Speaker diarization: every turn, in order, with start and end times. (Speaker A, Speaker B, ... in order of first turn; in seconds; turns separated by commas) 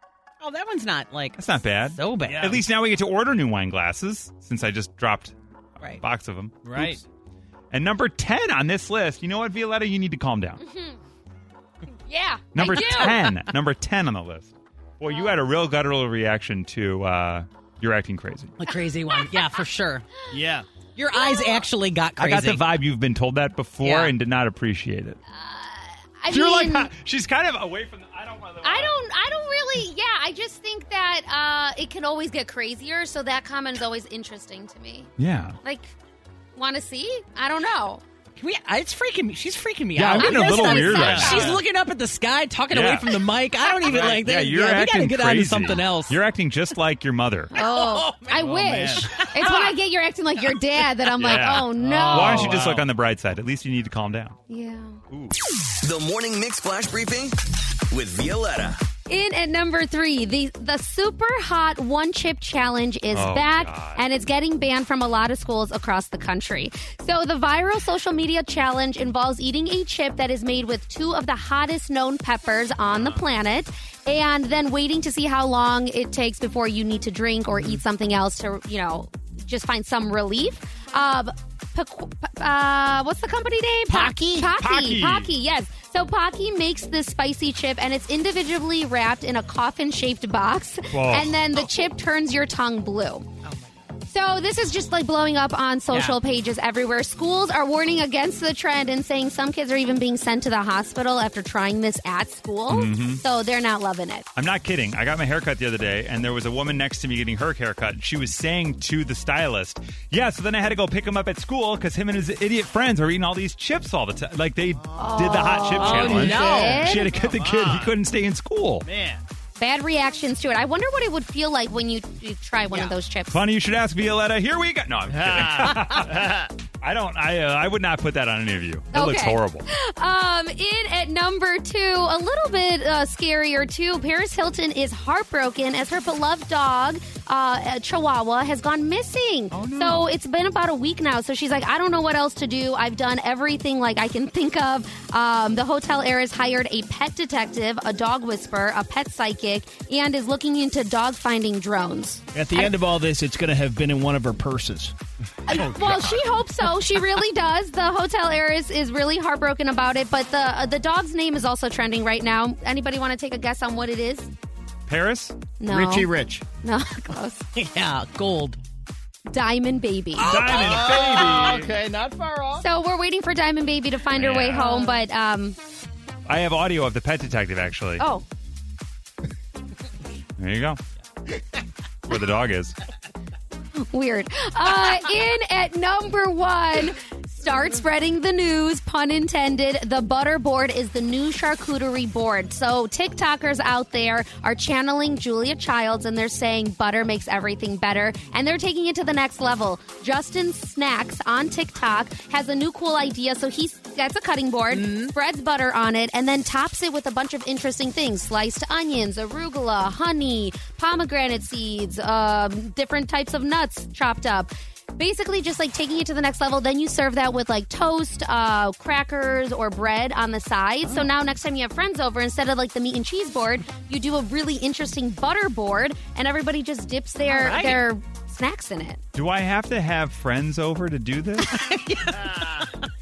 Speaker A: 0.4-2.6, Speaker B: 1.4-7.0, Speaker C: 2.2-2.6, Speaker C: 6.6-7.0, Speaker B: 7.7-10.6, Speaker D: 10.6-11.0, Speaker D: 12.1-13.1, Speaker B: 12.5-18.6, Speaker A: 12.8-13.4, Speaker D: 15.1-15.3, Speaker A: 18.6-20.0, Speaker D: 19.1-19.5, Speaker C: 20.3-20.7, Speaker A: 20.9-22.7, Speaker D: 21.1-21.6, Speaker B: 22.2-25.2, Speaker A: 23.8-24.1, Speaker D: 25.3-26.9, Speaker B: 26.3-28.9, Speaker D: 28.6-35.1, Speaker B: 35.2-35.6, Speaker D: 35.6-35.9, Speaker D: 36.5-38.0, Speaker A: 38.4-46.2, Speaker B: 40.0-41.5, Speaker D: 40.1-41.5, Speaker C: 40.9-41.6, Speaker B: 42.7-43.2, Speaker B: 43.9-47.5, Speaker C: 43.9-44.1, Speaker A: 47.5-49.8, Speaker D: 47.5-52.6, Speaker C: 48.3-49.5, Speaker B: 51.2-54.4, Speaker C: 51.8-52.9, Speaker D: 54.5-55.0, Speaker B: 55.1-55.3, Speaker E: 55.8-57.4, Speaker E: 57.9-58.8, Speaker D: 59.1-93.3, Speaker B: 63.1-64.0, Speaker B: 72.9-73.2, Speaker B: 84.5-85.3, Speaker B: 90.9-91.3, Speaker D: 94.1-104.3, Speaker A: 95.9-96.2, Speaker B: 102.7-103.2, Speaker B: 104.3-118.8, Speaker C: 114.8-118.0, Speaker D: 115.0-117.1, Speaker A: 115.8-116.9, Speaker C: 118.8-119.2, Speaker D: 119.6-123.4, Speaker A: 122.7-123.0, Speaker B: 123.3-126.3, Speaker C: 125.1-126.5, Speaker B: 126.8-129.7, Speaker D: 128.9-152.7, Speaker B: 139.5-140.1, Speaker C: 152.3-154.9, Speaker B: 155.5-156.2, Speaker D: 155.5-164.3, Speaker B: 164.9-165.3, Speaker D: 165.6-166.1, Speaker C: 165.7-166.4, Speaker D: 166.6-167.4, Speaker A: 167.5-168.6, Speaker D: 169.3-170.3, Speaker C: 170.2-172.7, Speaker B: 170.2-171.7, Speaker A: 170.2-171.5, Speaker D: 172.6-175.6, Speaker B: 174.1-174.7, Speaker B: 176.3-178.0, Speaker D: 178.0-178.2, Speaker B: 180.4-180.8, Speaker B: 182.1-182.7, Speaker D: 183.8-229.0, Speaker A: 204.7-205.1, Speaker A: 227.3-227.8, Speaker B: 229.1-231.5, Speaker A: 231.4-232.9